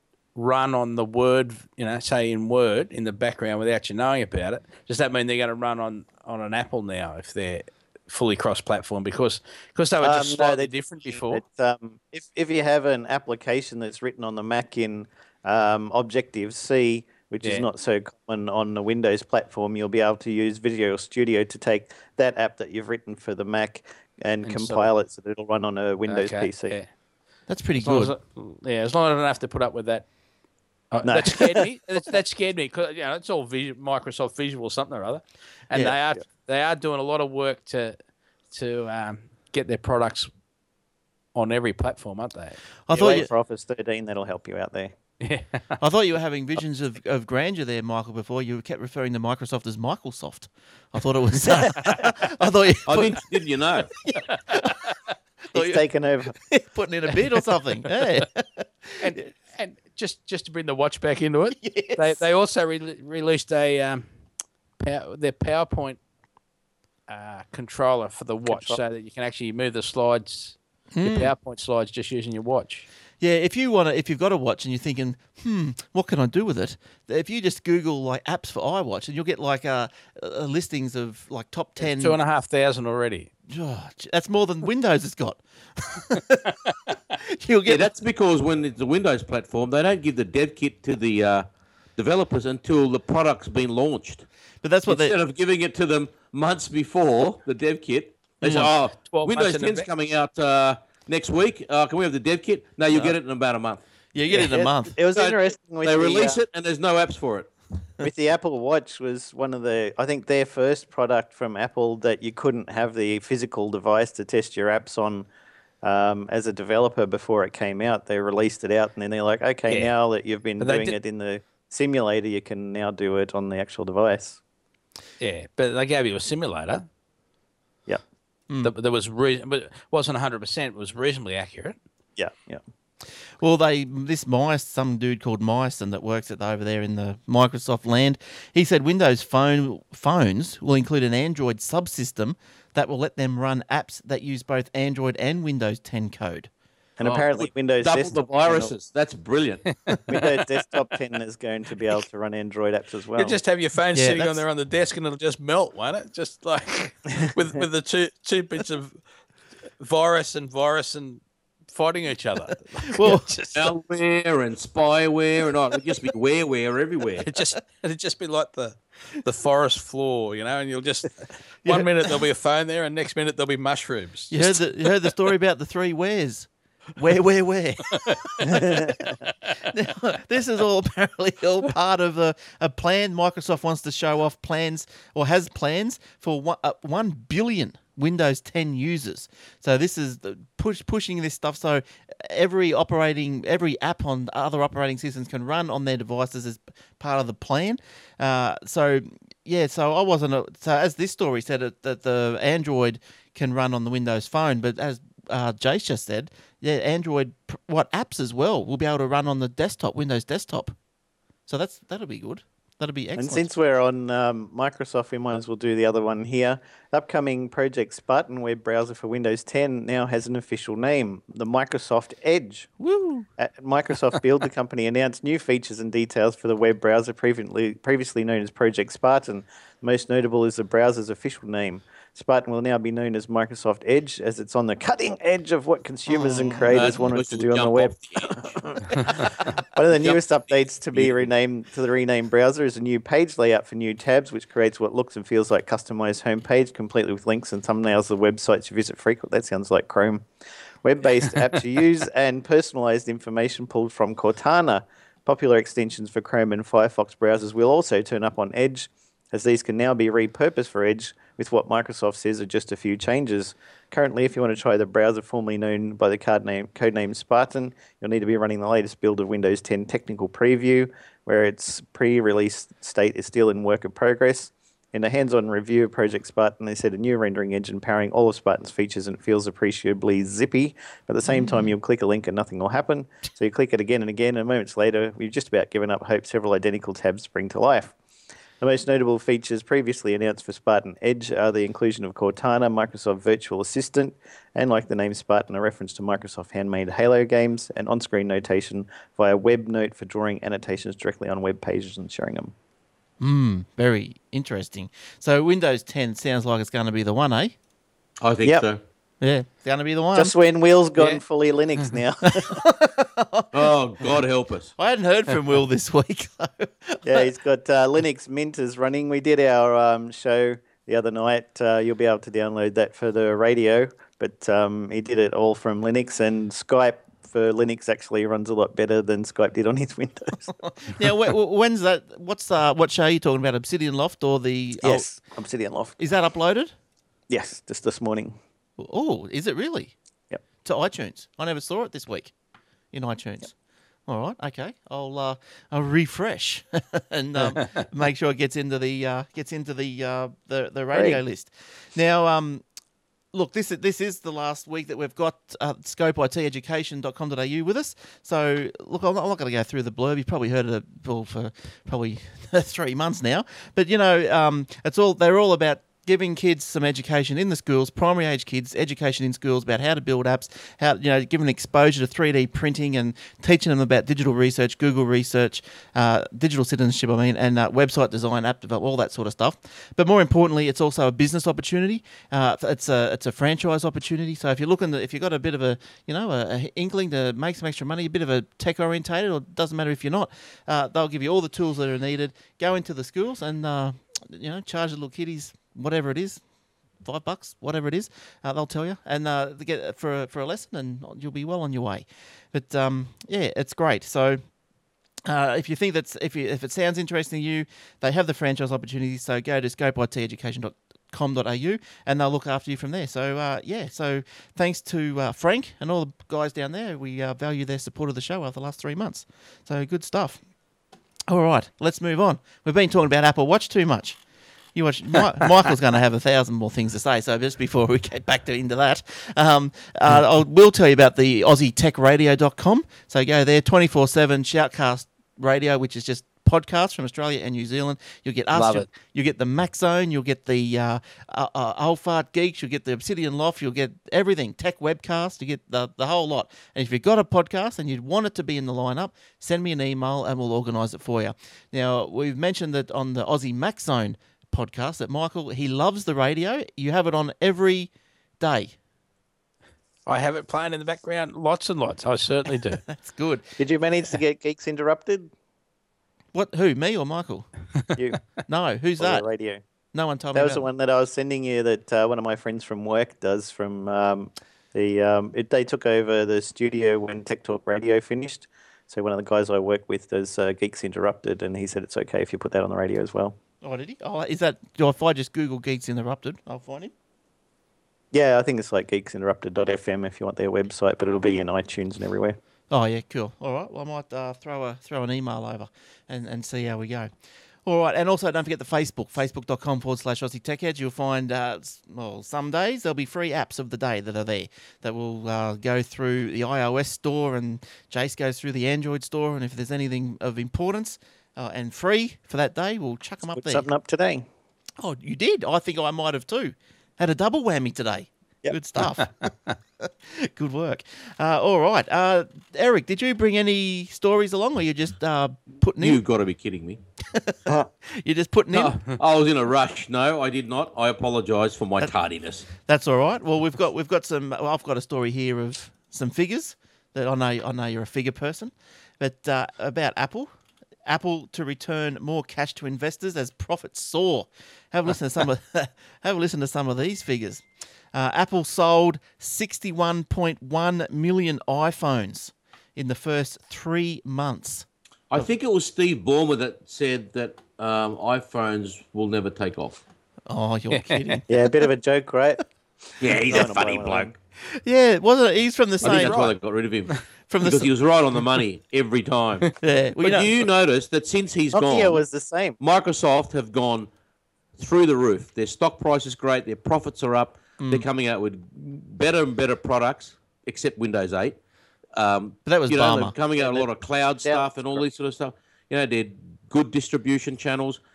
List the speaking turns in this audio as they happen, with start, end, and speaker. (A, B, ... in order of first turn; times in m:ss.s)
0:00.3-0:11.4 A
0:10.0-0:26.8 B
0:24.4-0:24.9 A
0:26.1-0:26.9 A
0:27.5-0:28.1 C
0:27.8-0:30.0 A
0:30.9-0:38.0 A
0:31.0-0:31.6 B
0:38.5-0:40.3 A
0:41.3-0:42.6 A
0:42.9-0:43.3 C
0:42.9-0:44.9 B
0:45.2-0:45.8 A
0:45.8-0:53.2 C
0:52.8-0:53.9 D
0:54.0-0:54.9 C
0:54.1-0:54.9 A
0:55.5-0:59.0 C
0:55.5-0:56.3 B
0:59.0-1:04.0 A
1:01.6-1:02.2 C
1:04.8-1:06.0 A
1:07.1-1:12.9 A
1:08.5-1:08.8 B
1:10.9-1:11.3 C
1:13.2-1:22.2 C
1:21.8-1:23.3 A
1:23.5-1:26.6 C
1:26.5-1:27.0 A
1:27.2-1:27.9 C
1:27.6-1:31.4 D
1:32.0-1:34.2 D
1:34.6-1:35.2 C
1:34.9-1:43.8 D
1:38.4-1:38.7 C
1:38.4-1:39.9 A
1:44.1-1:44.9 C
1:44.3-1:46.4 B
1:45.1-1:47.5 D
1:48.0-1:55.3 B
1:55.8-2:04.4 B
1:59.7-1:59.9 A
2:00.6-2:01.0 A
2:05.2-2:06.8 A
2:08.6-2:11.8 A
2:12.2-2:12.6 B
2:13.4-2:26.5 C
2:27.0-2:28.7 B
2:27.0-2:29.7 D
2:29.9-2:30.3 A
2:30.1-2:33.4 B
2:33.2-2:39.0 A
2:33.9-2:34.4 C
2:39.8-2:43.7 A
2:42.9-2:43.3 C
2:43.5-2:47.3 D
2:47.2-2:54.6 A
2:51.6-2:52.1 C
2:54.3-2:59.0 C
2:57.9-2:58.6 A
2:58.4-2:59.1 B
2:59.6-3:30.7 C
3:31.5-3:33.5 C
3:33.2-3:42.7 B
3:42.8-3:43.3 C
3:43.4-4:10.3 B
3:56.1-3:57.0 C
3:56.6-4:00.4 D
4:00.9-4:01.3 D
4:10.8-4:47.9 B
4:41.3-4:41.7 C
4:48.6-5:02.5 B
5:03.2-5:07.5 C
5:08.2-5:08.8 D
5:09.2-5:10.3 C
5:10.1-5:12.6 B
5:12.2-5:14.2 C
5:13.5-5:14.7 D
5:14.8-5:17.3 C
5:17.0-5:30.5 B
5:30.6-5:35.0 C
5:34.8-5:36.0 B
5:36.0-5:36.7 C
5:37.3-5:38.4 B
5:38.8-5:39.9 C
5:40.6-5:42.3 C
5:42.9-5:43.5 C
5:44.1-5:52.6 C
5:47.5-5:47.8 A
5:50.9-5:51.2 B
5:53.3-6:36.4 C
6:37.0-6:44.4 C
6:45.2-7:00.4 C
7:01.3-7:04.2 C
7:04.7-7:38.7 C
7:18.5-7:18.9 A
7:40.0-7:42.8 A
7:42.9-7:43.4 C
7:43.6-7:45.3 B
7:46.3-7:47.5 C
7:48.5-7:49.2 C
7:49.0-7:49.6 B
7:49.9-7:50.6 C
7:50.3-8:03.4 B
8:03.6-8:06.9 C
8:08.1-8:12.4 B
8:12.7-8:17.1 C
8:17.6-8:33.7 C
8:33.3-8:34.3 B
8:34.8-8:39.3 C
8:39.0-8:39.3 A
8:39.8-8:46.0 C
8:45.8-8:46.8 D
8:47.1-8:48.8 C
8:48.6-8:52.5 D
8:52.6-9:00.3 C
9:00.8-9:14.6 C
9:15.1-9:19.8 D
9:20.3-9:21.7 C
9:20.7-9:21.2 A
9:21.3-9:22.4 B
9:23.0-9:24.1 D
9:23.0-9:24.1 B
9:24.5-9:26.2 C
9:25.8-9:32.0 D
9:25.8-9:26.4 A
9:27.3-9:27.7 C
9:29.6-9:30.3 C
9:31.5-9:32.6 B
9:32.6-9:33.9 D
9:34.6-9:41.4 D
9:37.6-9:37.9 C
9:42.0-9:47.8 D
9:42.4-9:43.1 C
9:43.4-9:43.7 B
9:44.2-9:44.8 B